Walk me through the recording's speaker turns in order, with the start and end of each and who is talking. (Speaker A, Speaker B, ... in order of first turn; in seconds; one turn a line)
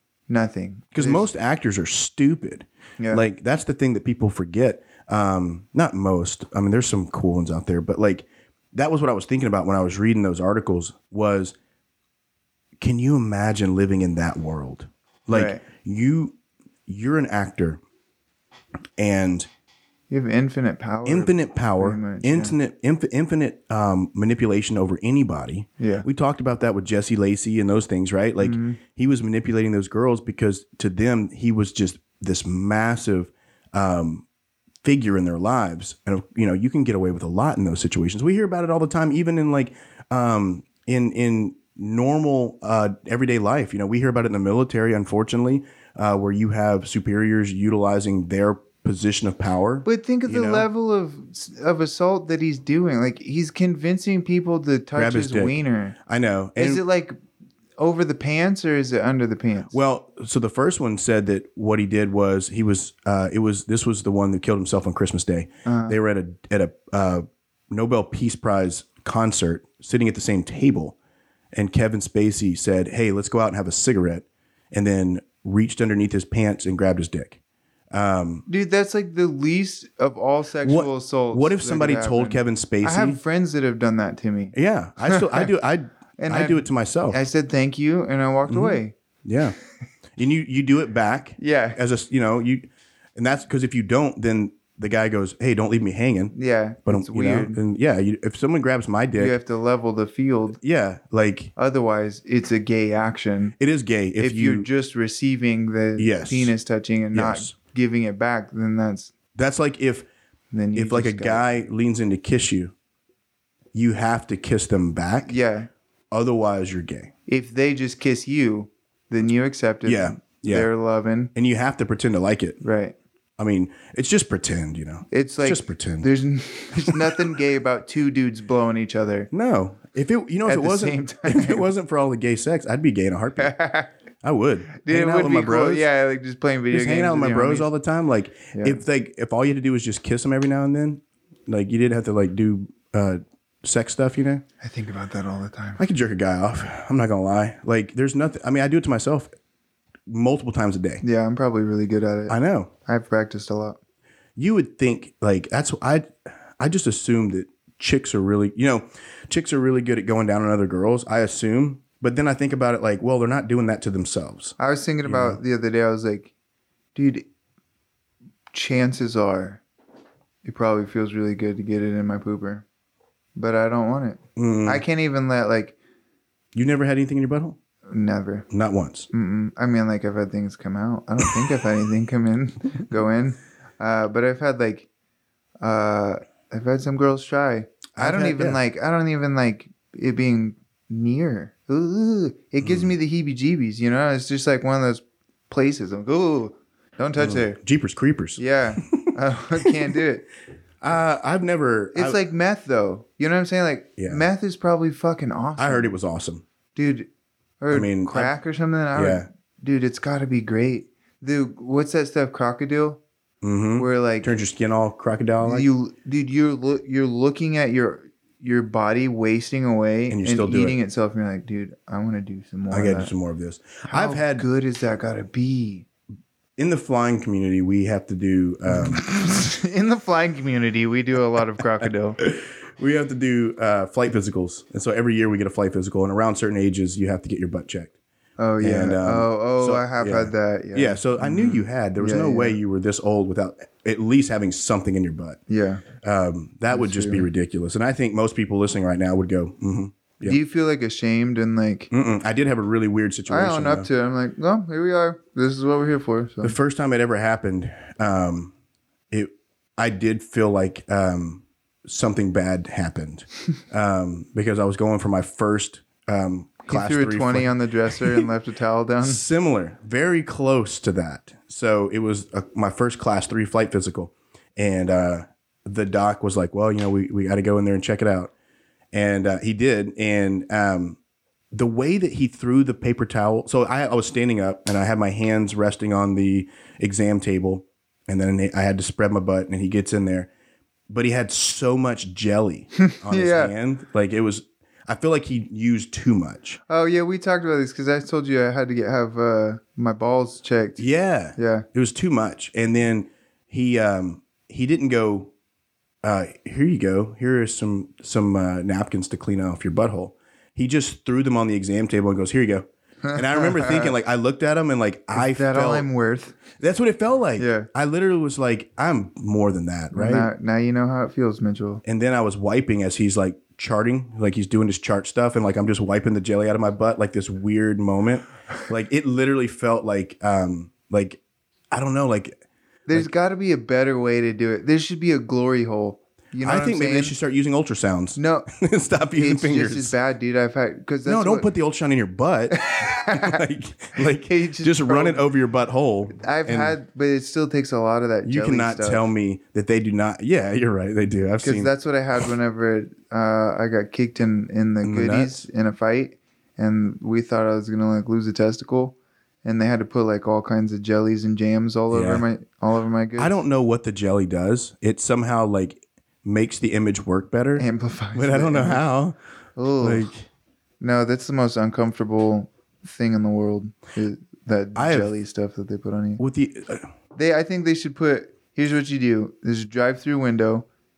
Speaker A: 0.3-1.3
Speaker B: 0.9-11.6
Speaker B: 12.8-16.4
Speaker A: 15.3-15.6
Speaker B: 16.9-17.8
Speaker B: 19.0-19.5
Speaker A: 20.1-22.6
Speaker B: 21.1-34.2
Speaker A: 25.8-26.1
Speaker A: 28.4-28.8
Speaker B: 34.8-50.7
Speaker A: 49.9-56.0
Speaker B: 55.0-56.8
Speaker A: 56.6-57.2
Speaker A: 57.8-59.8
Speaker B: 59.7-71.0
Speaker A: 65.7-66.0
Speaker B: 71.5-77.4
Speaker B: 77.9-78.5
Speaker A: 78.5-85.5
Speaker B: 80.6-83.2
Speaker B: 84.5-87.2
Speaker A: 86.2-88.9
Speaker B: 88.5-89.5
Speaker B: 90.2-96.3
Speaker A: 91.4-91.8
Speaker A: 96.3-97.6
Speaker B: 96.8-99.4
Speaker A: 99.2-100.6
Speaker B: 100.5-101.5
Speaker A: 101.6-103.5
Speaker B: 103.6-104.7
Speaker A: 104.2-109.1
Speaker B: 106.0-106.5
Speaker B: 107.1-107.5
Speaker B: 109.3-110.1
Speaker A: 110.5-111.4
Speaker B: 110.8-112.7
Speaker B: 113.7-115.3
Speaker A: 115.2-115.7
Speaker B: 116.1-117.1
Speaker A: 117.3-121.3
Speaker B: 119.8-120.7
Speaker B: 121.3-122.6
Speaker A: 122.6-123.0
Speaker B: 123.4-126.1
Speaker A: 125.1-129.3
Speaker B: 126.7-127.2
Speaker B: 129.3-133.6
Speaker A: 130.5-131.7
Speaker A: 133.4-133.9
Speaker B: 134.2-135.9
Speaker A: 134.8-137.7
Speaker B: 136.7-144.4
Speaker A: 138.5-138.8
Speaker A: 144.6-145.8
Speaker B: 145.8-149.3
Speaker B: 150.1-151.0
Speaker A: 151.0-153.8
Speaker B: 152.3-152.7
Speaker B: 154.4-165.4
Speaker A: 164.6-166.3
Speaker A: 166.9-167.2
Speaker A: 168.5-169.6
Speaker A: 170.4-172.6
Speaker A: 173.4-175.8
Speaker B: 174.4-174.8
Speaker B: 176.5-177.6
Speaker A: 177.9-178.5
Speaker B: 178.5-179.1
Speaker A: 179.1-184.9
Speaker A: 185.6-197.6
Speaker B: 188.0-188.6
Speaker B: 192.6-192.9
Speaker B: 197.2-199.7
Speaker A: 198.4-200.2
Speaker B: 200.8-202.2
Speaker A: 201.9-205.9
Speaker B: 205.6-206.4
Speaker A: 206.8-207.1
Speaker A: 207.6-213.0
Speaker B: 207.7-208.3
Speaker B: 208.9-209.3
Speaker B: 213.4-215.7
Speaker A: 213.8-214.3
Speaker A: 215.4-223.1
Speaker B: 220.1-220.8
Speaker B: 222.7-224.5
Speaker A: 223.9-225.9
Speaker B: 226.6-229.0
Speaker A: 228.7-232.2
Speaker B: 232.2-237.9
Speaker A: 238.4-242.6
Speaker B: 238.6-245.4
Speaker A: 245.5-245.8
Speaker B: 246.0-250.4
Speaker A: 246.7-247.3
Speaker A: 250.3-251.9
Speaker B: 251.9-253.9
Speaker A: 253.3-256.6
Speaker B: 256.4-258.5
Speaker B: 259.1-268.3
Speaker A: 266.6-269.2
Speaker B: 269.0-278.3
Speaker B: 278.9-281.0
Speaker B: 281.5-290.3
Speaker B: 290.9-296.6
Speaker A: 292.8-293.5
Speaker A: 296.7-300.9
Speaker B: 300.8-305.3
Speaker A: 301.4-301.7
Speaker B: 306.0-315.9
Speaker A: 313.1-313.9
Speaker A: 315.1-316.4
Speaker B: 316.6-320.3
Speaker A: 317.4-317.7
Speaker A: 319.9-321.8
Speaker B: 321.8-331.2
Speaker B: 331.7-332.4
Speaker A: 332.9-337.1
Speaker B: 336.4-339.9
Speaker A: 338.2-338.5
Speaker A: 339.1-341.5
Speaker B: 341.1-346.8
Speaker A: 342.5-343.4
Speaker A: 344.0-345.2
Speaker A: 346.2-349.0
Speaker B: 348.2-351.7
Speaker A: 351.4-363.4
Speaker B: 354.8-355.4
Speaker B: 361.9-362.2
Speaker B: 363.2-369.2
Speaker A: 367.6-368.9
Speaker A: 369.6-370.1
Speaker B: 369.8-370.2
Speaker A: 370.8-376.2
Speaker B: 374.8-375.1
Speaker B: 376.2-376.9
Speaker A: 377.1-380.7